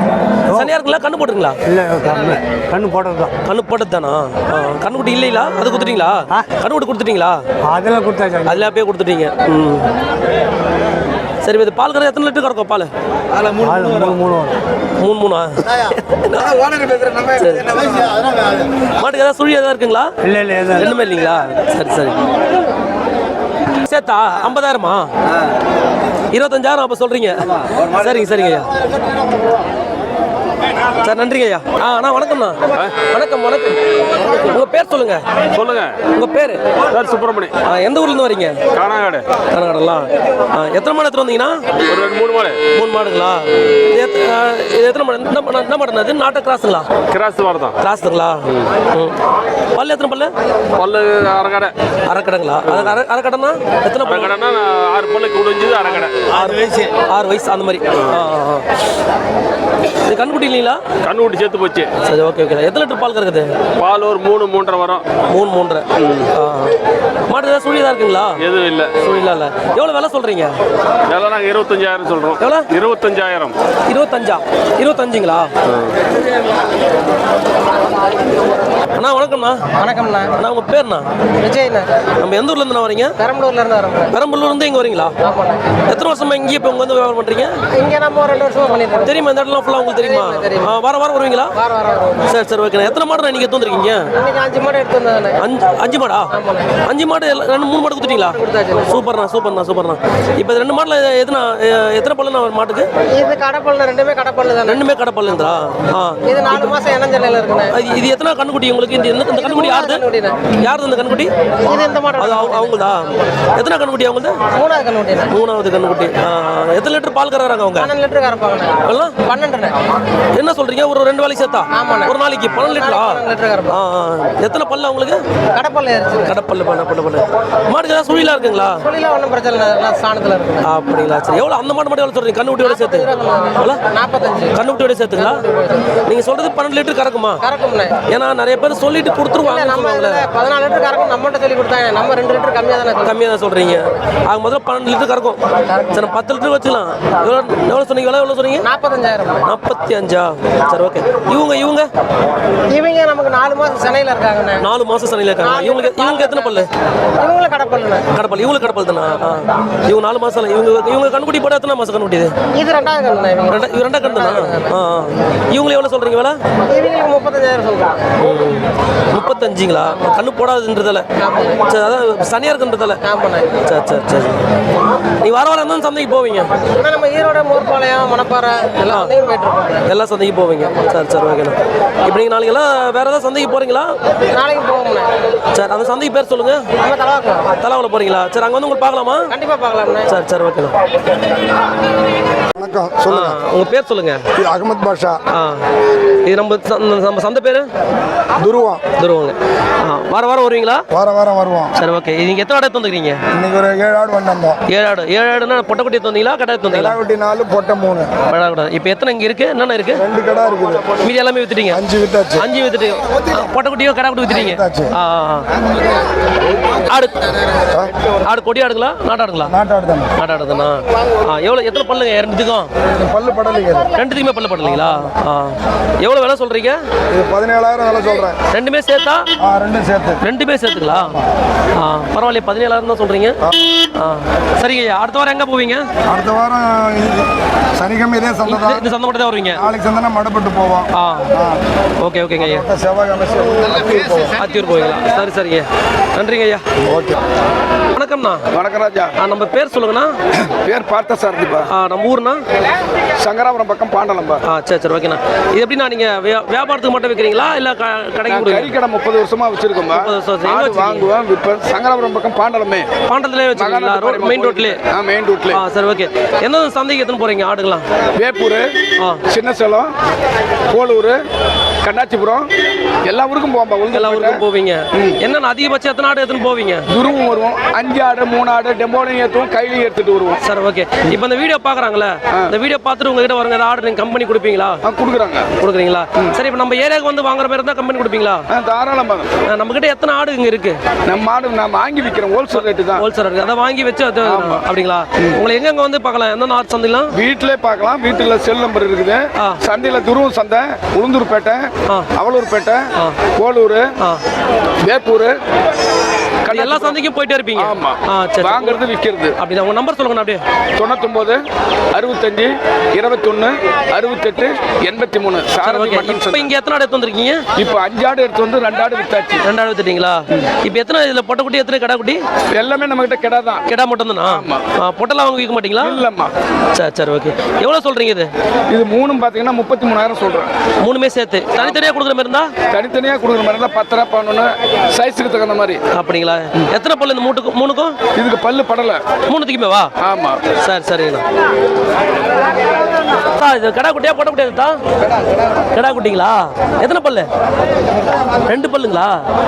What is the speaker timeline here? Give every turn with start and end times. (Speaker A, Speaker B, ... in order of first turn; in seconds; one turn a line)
Speaker A: 0.5-1.6
Speaker B: 1.7-3.3
Speaker A: 3.5-7.4
Speaker B: 7.7-8.6
Speaker A: 8.4-9.9
Speaker A: 11.4-12.9
Speaker B: 13.5-14.6
Speaker A: 15.0-18.2
Speaker A: 18.8-20.1
Speaker B: 20.2-20.9
Speaker A: 20.7-22.2
Speaker A: 23.8-25.1
Speaker A: 26.3-28.7
Speaker A: 31.0-35.2
Speaker C: 35.5-36.0
Speaker A: 36.1-36.6
Speaker C: 36.9-37.5
Speaker A: 37.6-38.6
Speaker C: 38.8-39.3
Speaker A: 39.5-41.6
Speaker C: 41.9-42.6
Speaker A: 42.7-46.9
Speaker C: 47.1-47.8
Speaker A: 47.8-49.2
Speaker A: 49.7-50.3
Speaker C: 50.8-51.7
Speaker A: 52.1-54.4
Speaker C: 52.7-53.0
Speaker C: 54.0-56.3
Speaker A: 56.3-58.6
Speaker A: 60.1-60.8
Speaker C: 61.0-61.9
Speaker A: 62.0-63.5
Speaker C: 63.8-65.0
Speaker A: 65.3-66.8
Speaker A: 67.3-68.4
Speaker C: 68.4-69.0
Speaker A: 69.0-70.5
Speaker C: 71.1-73.5
Speaker A: 72.4-72.7
Speaker A: 73.9-75.5
Speaker A: 79.0-79.7
Speaker D: 79.8-80.3
Speaker A: 80.3-81.1
Speaker D: 81.4-82.0
Speaker A: 82.2-83.2
Speaker D: 83.2-84.1
Speaker A: 84.1-85.2
Speaker D: 85.2-85.8
Speaker A: 85.9-87.6
Speaker D: 87.7-89.2
Speaker A: 89.0-91.6
Speaker D: 90.0-90.7
Speaker D: 91.6-92.3
Speaker A: 92.3-94.1
Speaker D: 94.2-95.4
Speaker A: 95.4-102.9
Speaker D: 96.3-96.7
Speaker D: 98.2-99.0
Speaker D: 103.2-104.8
Speaker A: 104.7-106.7
Speaker D: 106.3-107.8
Speaker A: 107.7-111.3
Speaker D: 109.4-110.4
Speaker D: 111.7-112.9
Speaker A: 112.2-114.4
Speaker D: 114.5-115.3
Speaker A: 115.3-117.9
Speaker D: 117.8-119.8
Speaker A: 118.8-119.2
Speaker A: 120.3-125.2
Speaker D: 121.7-123.8
Speaker D: 125.5-126.4
Speaker A: 126.3-128.8
Speaker D: 128.8-130.7
Speaker A: 130.6-133.8
Speaker D: 132.6-134.6
Speaker A: 134.5-135.4
Speaker D: 135.2-136.0
Speaker A: 136.0-137.4
Speaker D: 137.4-138.0
Speaker A: 138.1-140.2
Speaker D: 139.4-143.2
Speaker A: 143.0-148.7
Speaker D: 145.7-146.0
Speaker D: 148.6-149.5
Speaker A: 149.4-151.9
Speaker D: 152.7-154.7
Speaker A: 154.6-156.7
Speaker D: 155.4-158.1
Speaker A: 158.1-162.3
Speaker D: 162.5-164.8
Speaker A: 163.5-166.4
Speaker D: 166.7-168.1
Speaker A: 168.2-171.1
Speaker D: 171.2-171.6
Speaker A: 171.6-173.0
Speaker D: 173.0-173.6
Speaker A: 173.6-174.4
Speaker A: 175.2-176.5
Speaker D: 176.8-179.8
Speaker A: 179.8-184.0
Speaker D: 184.3-185.1
Speaker A: 185.5-186.7
Speaker D: 186.8-187.5
Speaker A: 187.6-189.3
Speaker D: 189.3-190.1
Speaker A: 190.1-190.8
Speaker E: 192.6-193.2
Speaker A: 193.1-194.2
Speaker E: 194.4-195.2
Speaker A: 195.3-195.7
Speaker A: 196.2-197.7
Speaker E: 198.4-198.8
Speaker A: 199.0-200.8
Speaker E: 200.9-201.7
Speaker A: 201.8-203.2
Speaker E: 203.3-204.6
Speaker A: 204.7-207.0
Speaker E: 207.0-208.1
Speaker A: 208.3-210.0
Speaker E: 210.1-210.8
Speaker A: 211.0-215.5
Speaker E: 211.9-212.4
Speaker E: 214.6-214.9
Speaker A: 216.9-217.3
Speaker A: 218.2-219.5
Speaker E: 219.5-220.1
Speaker A: 220.2-222.7
Speaker E: 223.0-223.9
Speaker A: 223.9-226.8
Speaker E: 227.1-228.4
Speaker A: 228.5-229.3
Speaker E: 229.4-230.2
Speaker A: 230.2-231.2
Speaker A: 231.8-235.9
Speaker E: 236.1-238.7
Speaker A: 238.4-239.6
Speaker E: 239.7-240.9
Speaker A: 240.9-241.4
Speaker A: 242.0-242.7
Speaker E: 242.7-244.3
Speaker B: 243.9-244.3
Speaker A: 244.3-246.6
Speaker E: 246.9-247.2
Speaker A: 247.9-248.4
Speaker F: 248.5-249.1
Speaker A: 249.2-250.2
Speaker F: 250.4-251.7
Speaker A: 251.7-252.4
Speaker F: 253.2-254.4
Speaker A: 254.5-258.8
Speaker F: 258.3-262.9
Speaker A: 259.9-261.1
Speaker A: 263.1-264.8
Speaker F: 263.6-265.6
Speaker A: 265.5-267.9
Speaker F: 268.2-268.7
Speaker F: 269.3-269.9
Speaker F: 270.7-271.2
Speaker F: 271.8-272.5
Speaker F: 273.1-274.4
Speaker A: 273.9-276.9
Speaker F: 276.9-280.4
Speaker A: 280.4-284.8
Speaker F: 284.9-285.5
Speaker A: 285.6-288.4
Speaker F: 288.5-289.3
Speaker A: 289.5-290.8
Speaker F: 291.1-293.1
Speaker A: 292.5-297.1
Speaker F: 294.3-294.6
Speaker F: 297.1-303.9
Speaker F: 304.8-305.4
Speaker F: 306.4-307.0
Speaker A: 306.5-308.8
Speaker F: 307.6-309.4
Speaker A: 309.4-310.4
Speaker F: 310.8-311.4
Speaker F: 311.9-316.5
Speaker A: 315.6-317.4
Speaker F: 317.6-319.4
Speaker A: 319.4-322.2
Speaker F: 322.5-323.6
Speaker A: 323.7-326.0
Speaker F: 324.2-324.6
Speaker F: 325.8-326.3
Speaker A: 326.7-328.3
Speaker F: 328.7-330.5
Speaker A: 330.8-332.5
Speaker F: 331.6-331.9
Speaker F: 332.7-335.8
Speaker A: 335.9-338.0
Speaker F: 338.2-339.0
Speaker A: 339.3-339.9
Speaker F: 340.0-340.4
Speaker A: 340.6-341.2
Speaker A: 343.3-344.8
Speaker A: 345.7-347.3
Speaker A: 348.5-349.2